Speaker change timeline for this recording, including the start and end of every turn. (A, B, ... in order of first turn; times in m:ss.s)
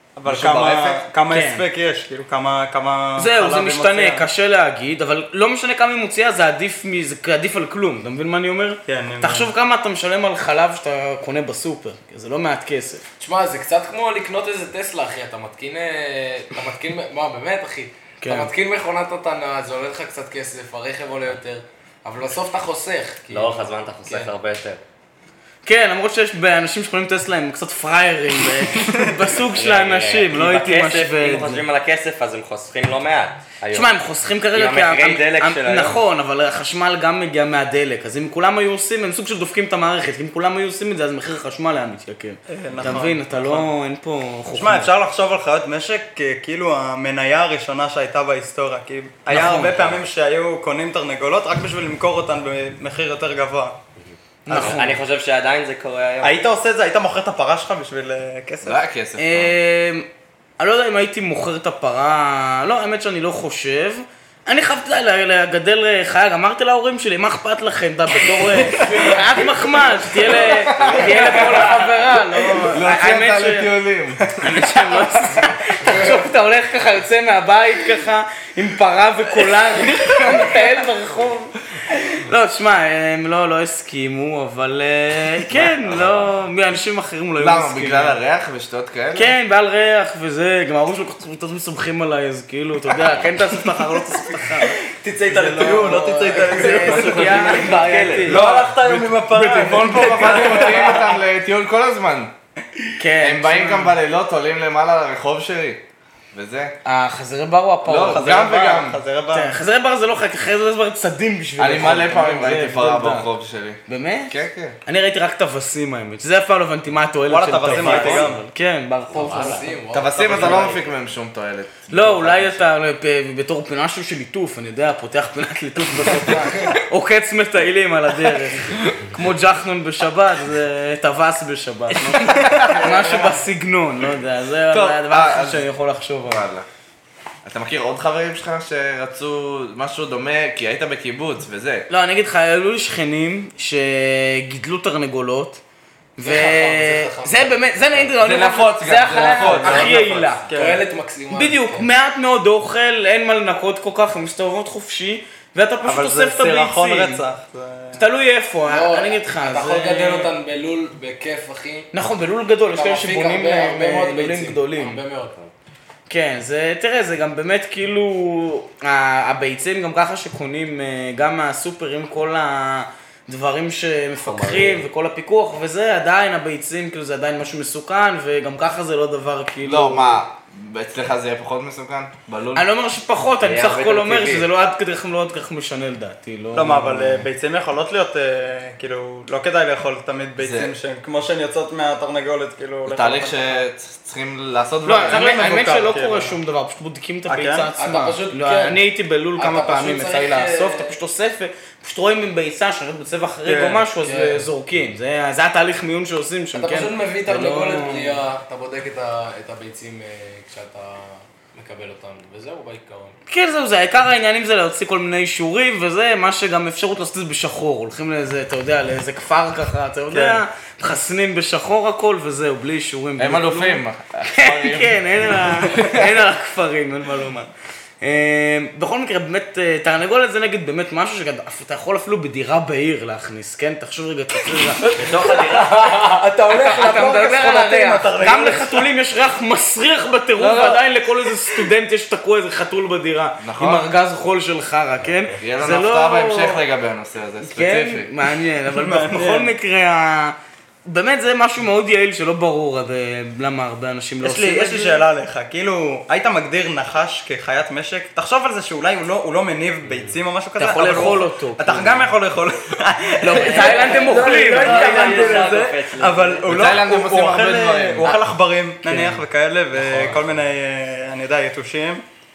0:00.2-0:04.3 A
0:00.2-0:01.0 B
0:01.3-0:01.6 C
0:03.2-0:13.0 C
0:08.9-0:09.5 A
0:13.2-0:24.3 D
0:18.2-0:18.5 C
0:23.3-0:24.8 E
0:25.6-0:31.6 C
0:29.5-0:34.0 E
0:33.7-0:44.9 C
0:34.5-0:36.0 E
0:42.5-0:43.7 A
0:44.5-0:53.8 A
0:49.3-0:50.0 C
0:54.0-0:56.4 E
0:54.4-0:55.0 C
0:56.2-0:58.8 A
0:58.6-0:59.5 B
0:59.2-1:00.1 C
1:00.6-1:13.7 C
1:08.8-1:09.1 B
1:10.0-1:15.6 B
1:14.4-1:28.2 C
1:19.9-1:20.5 B
1:25.8-1:26.3 E
1:27.4-1:29.3 B
1:29.1-1:34.8 C
1:34.8-1:41.2 A
1:35.3-1:41.0 C
1:35.5-1:36.0 B
1:36.2-1:38.5 E
1:39.5-1:42.3 B
1:43.0-1:44.0 C
1:43.2-1:46.8 B
1:46.8-1:53.3 C
1:47.8-1:49.0 B
1:48.1-1:49.6 A
1:51.6-1:54.8 B
1:53.9-1:54.3 C
1:54.8-1:59.7 C
1:57.3-1:58.4 A
1:59.1-2:00.9 E
1:59.1-2:00.9 D
1:59.9-2:02.7 B
2:01.9-2:16.4 C
2:12.4-2:13.0 B
2:14.7-2:15.7 B
2:16.2-2:16.6 B
2:17.4-2:21.9 B
2:21.9-2:25.6 C
2:26.2-2:30.4 C
2:26.2-2:27.6 D
2:28.2-2:30.0 B
2:29.4-2:29.9 A
2:29.5-2:31.9 D
2:30.5-2:30.8 A
2:31.3-2:37.2 C
2:35.8-2:38.0 A
2:37.9-2:40.3 C
2:38.6-2:41.9 D
2:41.9-2:45.0 C
2:42.7-2:45.4 D
2:46.1-3:00.2 C
2:54.2-2:54.9 E
2:59.6-3:02.6 B
3:02.5-3:07.3 C
3:03.4-3:04.5 E
3:06.5-3:13.6 A
3:10.4-3:10.7 B
3:12.8-3:15.7 B
3:14.8-3:28.2 C
3:15.1-3:16.4 A
3:17.3-3:17.7 A
3:17.8-3:18.8 D
3:19.4-3:20.9 D
3:23.4-3:23.8 A
3:24.0-3:24.4 D
3:26.5-3:33.2 D
3:33.3-3:47.5 C
3:40.1-3:40.4 A
3:43.2-3:46.1 B
3:48.0-3:54.9 C
3:54.8-3:58.9 A
3:54.9-3:55.8 E
3:56.5-4:06.6 C
4:00.4-4:00.8 B
4:03.4-4:03.9 B
4:05.0-4:05.3 E
4:05.4-4:08.1 B
4:07.4-4:15.0 C
4:08.7-4:09.5 A
4:14.2-4:32.0 A
4:19.8-4:20.2 E
4:20.6-4:22.1 C
4:23.2-4:25.5 C
4:23.4-4:26.6 E
4:26.4-4:28.1 B
4:28.8-4:29.2 C
4:29.8-4:30.2 D